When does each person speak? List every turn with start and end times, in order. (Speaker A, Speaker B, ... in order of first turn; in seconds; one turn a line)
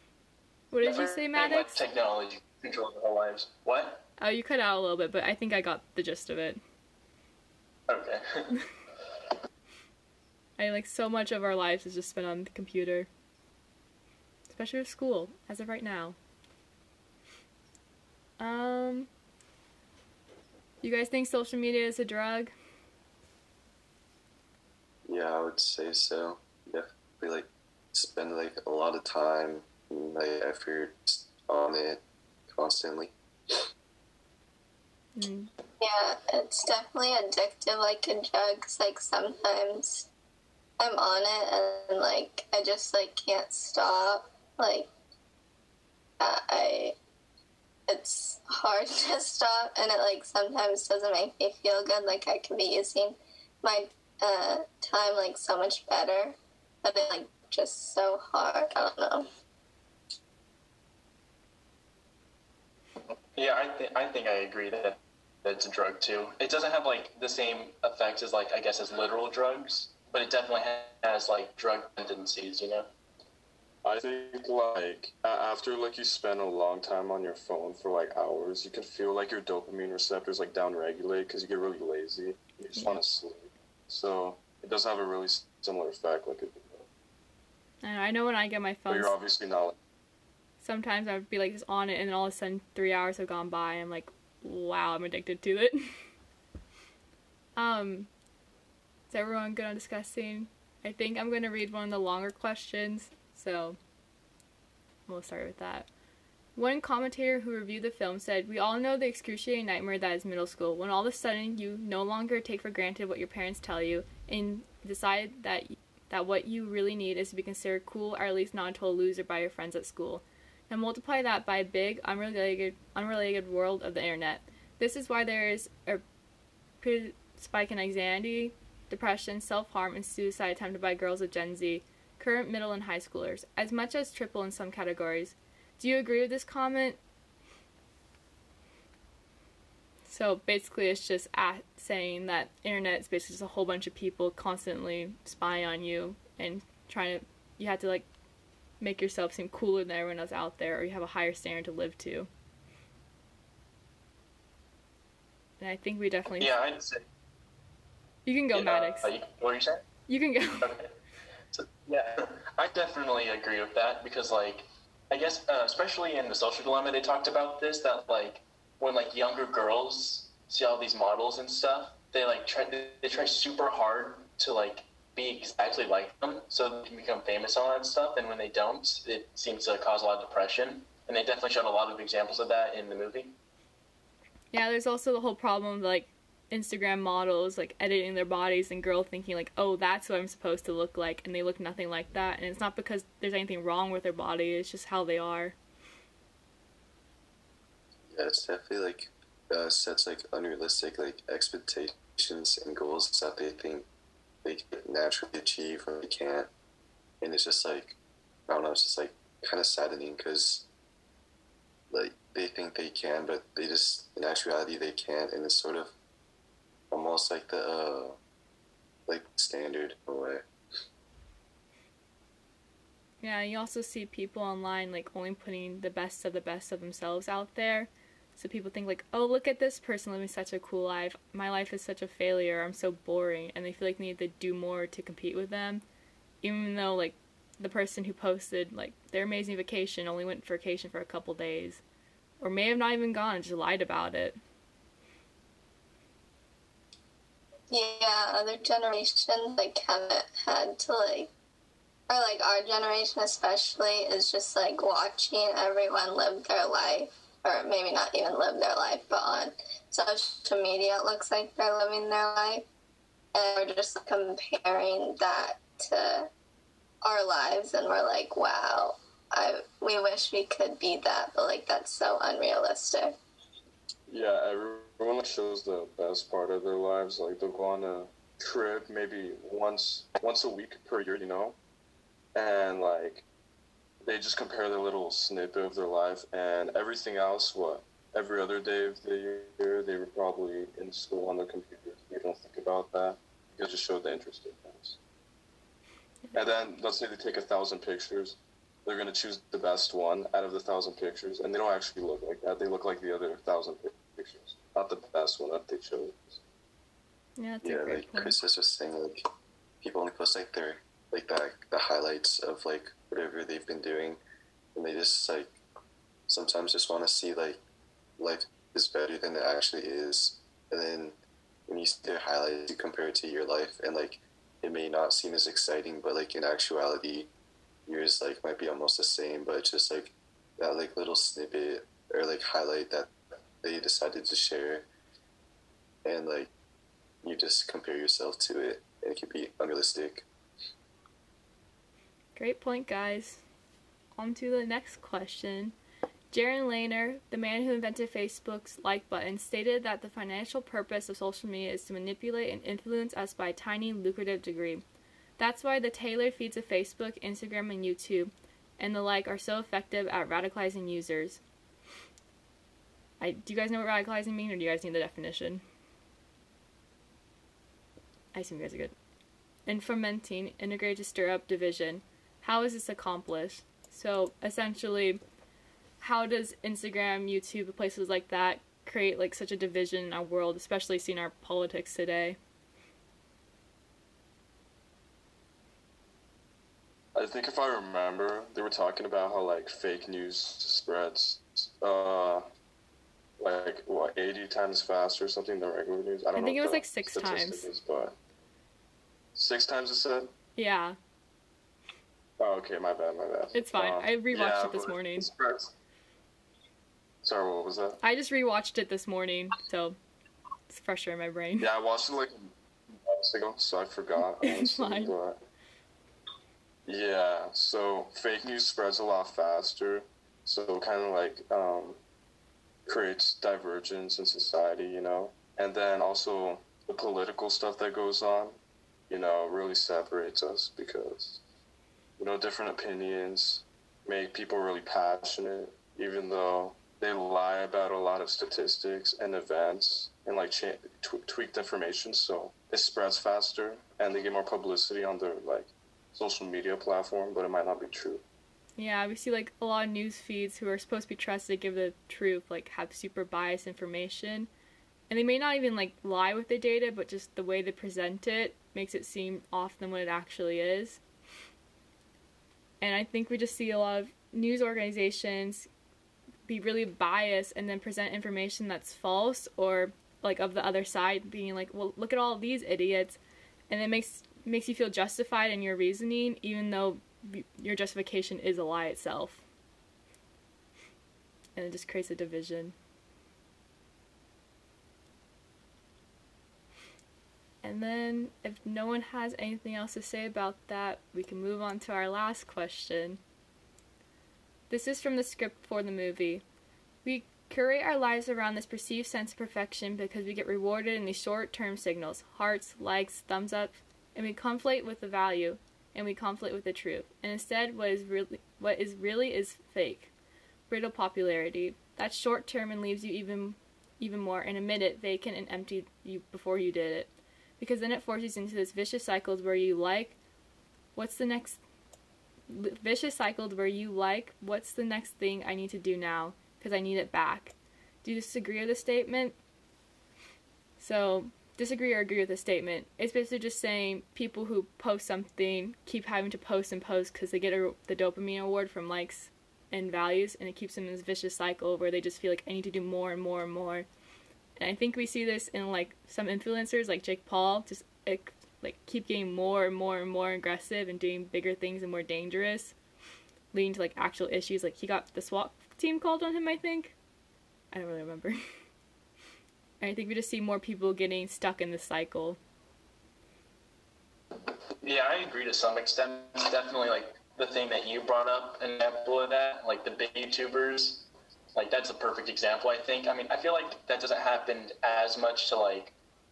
Speaker A: 0.7-1.8
Speaker B: 0.8-4.0
Speaker A: 4.2-6.6
Speaker B: 7.9-8.6
Speaker A: 10.6-13.1
Speaker A: 14.5-16.1
Speaker A: 18.4-19.1
Speaker A: 20.8-22.5
Speaker C: 25.1-33.1
Speaker A: 35.1-35.5
Speaker D: 35.8-40.1
Speaker D: 40.8-44.9
Speaker D: 46.2-47.0
Speaker D: 47.9-59.3
Speaker B: 63.4-72.9
Speaker E: 73.8-86.8
Speaker A: 87.8-89.1
Speaker E: 88.9-89.8
Speaker A: 90.6-95.8
Speaker A: 97.5-98.1
Speaker A: 99.1-103.8
Speaker A: 105.1-105.9
Speaker A: 106.5-126.0
Speaker A: 126.8-137.0
Speaker A: 140.1-148.1
Speaker A: 148.8-152.3
Speaker A: 155.6-156.6
Speaker B: 156.4-157.0
Speaker A: 158.2-159.1
Speaker B: 158.5-159.8
Speaker A: 160.1-160.7
Speaker B: 160.6-160.9
Speaker B: 161.5-183.3
Speaker A: 184.5-195.6
Speaker C: 198.1-203.9
Speaker C: 204.4-206.5
Speaker C: 207.2-207.9
Speaker C: 208.5-210.7
Speaker C: 211.9-215.9
Speaker C: 216.9-218.2
Speaker C: 219.1-220.4
Speaker A: 223.2-235.8
Speaker A: 236.4-241.8
Speaker A: 242.4-244.4
Speaker D: 247.7-251.3
Speaker D: 252.1-262.6
Speaker D: 263.3-266.3
Speaker D: 267.0-273.1
Speaker E: 274.1-281.6
Speaker E: 282.3-283.2
Speaker E: 284.0-295.0
Speaker E: 296.3-306.4
Speaker A: 307.4-308.4
Speaker C: 307.6-309.2
Speaker C: 309.8-314.2
Speaker C: 314.7-315.6
Speaker C: 316.3-317.6
Speaker C: 318.2-321.1
Speaker C: 321.7-327.3
Speaker C: 327.9-334.8
Speaker C: 336.0-336.5
Speaker C: 337.2-340.2
Speaker A: 342.4-343.4
Speaker A: 344.2-345.7
Speaker A: 346.3-354.8
Speaker A: 355.4-361.4
Speaker A: 363.2-365.6
Speaker A: 368.3-368.9
Speaker A: 369.7-375.2
Speaker A: 376.0-382.4
Speaker E: 387.1-392.4
Speaker E: 393.4-398.1
Speaker A: 396.3-397.7
Speaker E: 399.3-400.3
Speaker A: 400.6-401.0
Speaker E: 402.4-405.7
Speaker A: 403.5-405.3
Speaker E: 407.2-408.0
Speaker A: 408.0-410.0
Speaker A: 410.7-411.7
Speaker E: 411.6-412.5
Speaker E: 413.1-415.4
Speaker A: 414.4-415.1
Speaker E: 416.9-422.0
Speaker E: 422.9-428.6
Speaker E: 429.1-431.4
Speaker E: 432.2-448.2
Speaker A: 448.8-454.5
Speaker A: 455.1-461.0
Speaker A: 462.8-465.7
Speaker A: 466.5-473.2
Speaker A: 473.7-479.4
Speaker A: 481.6-482.7
Speaker A: 487.6-493.2
Speaker A: 494.7-496.4
Speaker A: 497.0-510.1
Speaker A: 510.7-517.1
Speaker A: 517.6-520.1
Speaker A: 521.0-521.6
Speaker A: 522.5-529.4
Speaker A: 530.8-543.9
Speaker A: 544.6-552.7
Speaker A: 553.5-556.9
Speaker A: 557.7-558.4
Speaker A: 559.8-562.4
Speaker B: 564.8-575.9